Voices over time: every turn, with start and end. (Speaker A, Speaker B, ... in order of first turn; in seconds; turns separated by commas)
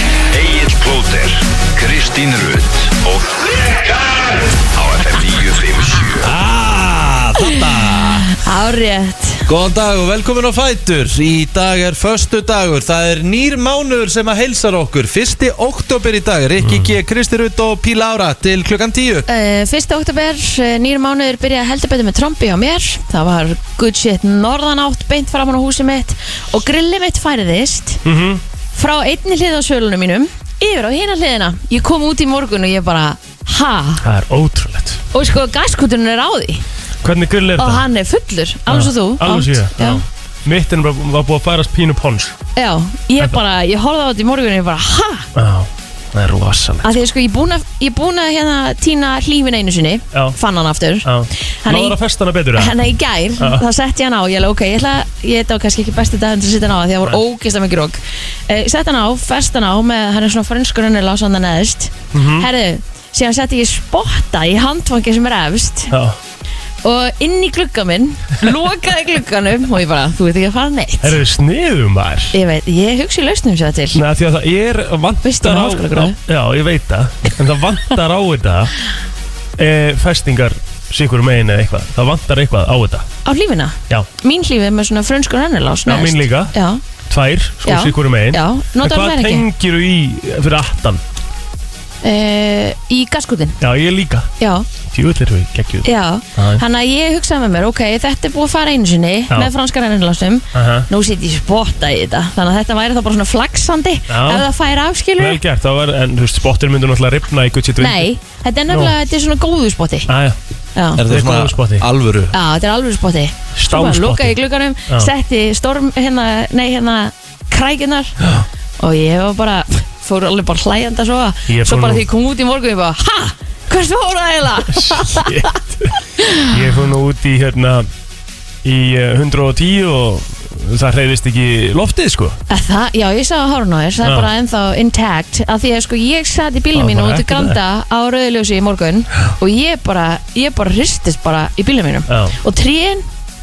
Speaker A: 0.3-6.3, Speaker B: 6.2-8.3, Speaker C: 8.3-9.5, Speaker B: 9.5-19.3, Speaker D: 16.6-16.9, Speaker C: 19.3-28.0, Speaker D: 28.1-28.4, Speaker C: 28.8-34.0, Speaker D: 34.0-35.0, Speaker C: 35.1-36.6, Speaker D: 37.0-37.8, Speaker C: 37.6-40.0, Speaker D: 38.7-42.4, Speaker C: 42.6-45.3, Speaker D: 45.4-47.0, Speaker C: 46.8-51.1, Speaker D: 50.1-50.4, Speaker D: 51.0-52.8, Speaker C: 51.6-52.0, Speaker C: 52.6-65.9, Speaker D: 62.1-62.5, Speaker D: 65.9-66.2, Speaker C: 66.8-71.2, Speaker D: 71.0-72.3, Speaker C: 72.3-74.0, Speaker D: 74.0-78.7, Speaker C: 75.2-76.2, Speaker D: 79.6-83.1, Speaker C: 83.2-86.8, Speaker D: 85.9-86.5, Speaker D: 87.1-91.0, Speaker C: 87.7-89.5, Speaker C: 92.0-93.6, Speaker D: 93.6-94.3, Speaker C: 94.4-94.7, Speaker D: 94.9-96.6, Speaker C: 95.8-105.4, Speaker D: 100.5-100.9, Speaker D: 104.1-104.5, Speaker D: 105.2-108.1, Speaker C: 107.8-110.1, Speaker D: 108.7-109.0, Speaker D: 110.1-110.4, Speaker C: 110.8-111.0, Speaker B: 111.0-112.3, Speaker D: 111.0-111.9, Speaker C: 112.3-118.2, Speaker D: 113.6-114.4, Speaker C: 118.8-125.5, Speaker D: 121.5-122.1, Speaker D: 124.7-125.9, Speaker C: 126.2-126.5, Speaker D: 126.5-127.9, Speaker D: 128.6-132.4, Speaker C: 132.5-143.1, Speaker D: 134.0-134.3, Speaker D: 136.7-137.6, Speaker D: 142.1-142.4